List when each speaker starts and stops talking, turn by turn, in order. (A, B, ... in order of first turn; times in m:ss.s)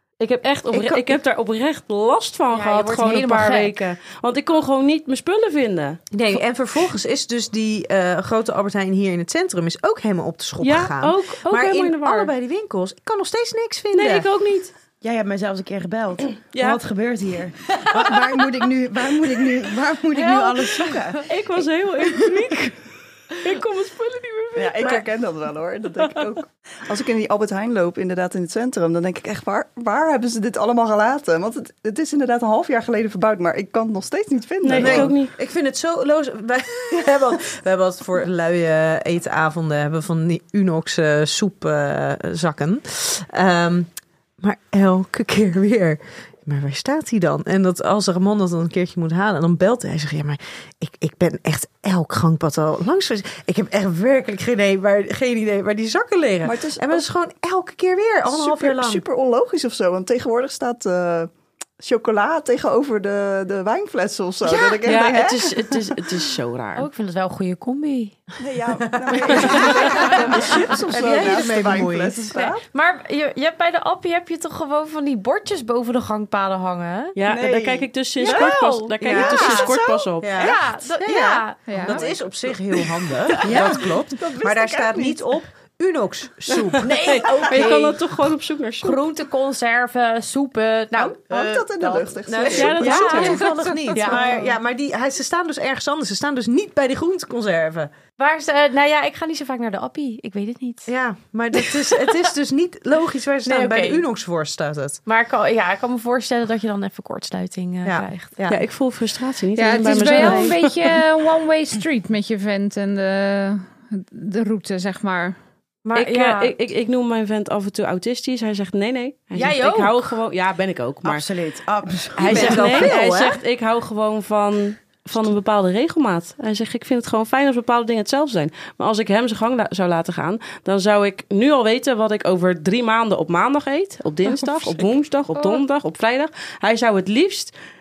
0:00.2-0:06.0 A
0:00.7-0:01.1 B
0:02.5-0:03.7 C
0:06.1-0:14.2 B
0:10.6-0:12.3 A
0:13.9-0:14.7 A
0:15.0-0:21.2 D
0:16.4-0:16.8 A
0:20.1-0:21.0 C
0:21.2-0:25.0 A
0:24.5-0:35.2 E
0:34.6-0:35.3 A
0:34.7-0:59.0 B
0:56.4-0:57.0 E
0:58.3-1:05.6 E
1:04.4-1:04.8 B
1:04.8-1:06.9 A
1:06.8-1:08.2 C
1:08.4-1:12.6 E
1:10.9-1:12.4 B
1:12.7-1:17.2 C
1:17.2-1:20.5 A
1:17.3-1:18.4 E
1:18.2-1:19.8 C
1:19.0-1:26.9 B
1:20.4-1:22.1 C
1:21.7-1:22.0 F
1:23.3-1:23.7 C
1:23.4-1:25.2 E
1:26.5-1:29.0 A
1:26.8-1:28.0 C
1:28.8-1:34.5 C
1:31.0-1:33.1 E
1:32.2-1:37.9 B
1:32.5-1:33.4 A
1:33.2-1:34.3 F
1:38.2-1:40.9 C
1:40.9-1:45.0 B
1:41.6-1:42.1 C
1:43.4-1:44.0 C
1:45.0-1:48.3 C
1:47.8-1:48.6 B
1:48.5-1:50.7 A
1:49.6-1:55.3 F
1:49.9-1:50.5 C
1:55.8-1:56.5 C
1:55.9-2:01.3 A
1:59.3-2:00.0 C
2:01.0-2:02.8 D
2:02.2-2:17.5 A
2:02.2-2:03.4 B
2:14.4-2:14.8 C